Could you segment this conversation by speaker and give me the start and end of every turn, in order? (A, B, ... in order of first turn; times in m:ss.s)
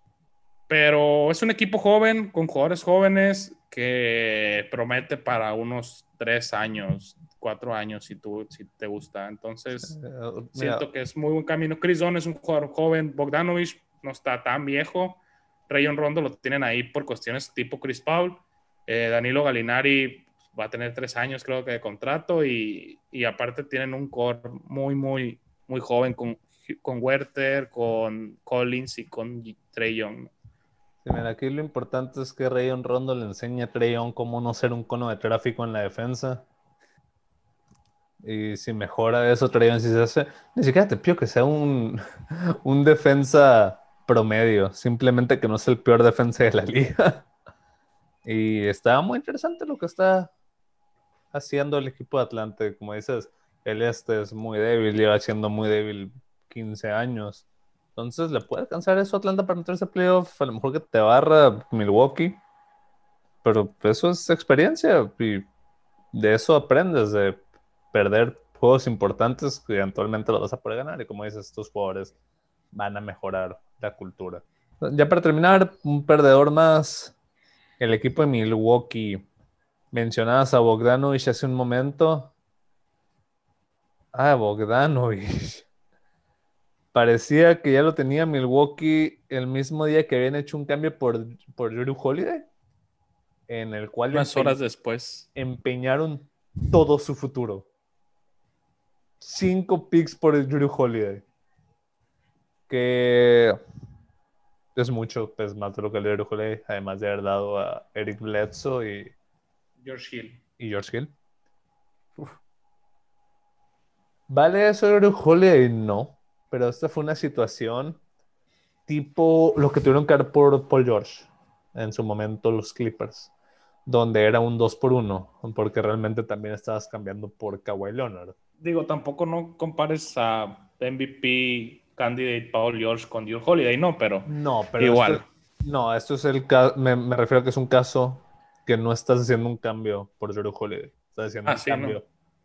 0:00.7-0:09.9 A
0:09.7-0:10.9 B
0:10.5-0:30.3 A
0:31.0-0:36.4 B
0:38.2-0:47.2 B
0:48.2-0:50.3 B
0:51.3-0:57.4 B
0:58.0-1:02.4 B
1:03.4-1:05.5 B
1:06.1-1:07.4 B
1:07.9-1:12.1 B
1:12.7-1:17.1 B
1:17.8-1:19.2 B
1:19.9-1:22.3 B
1:24.1-1:25.6 B
1:26.9-1:32.4 B
1:33.5-1:34.6 B
1:34.1-1:35.3 A
1:35.3-1:37.7 B
1:39.2-1:41.2 B
1:42.7-1:43.6 B
1:44.7-1:49.1 B
1:49.8-1:50.4 A
1:50.6-1:51.1 B
1:54.3-1:58.0 B
1:58.9-2:03.3 B
2:03.9-2:08.3 B
2:08.6-2:14.3 A
2:14.2-2:22.0 B
2:14.8-2:15.2 A
2:21.4-2:22.0 A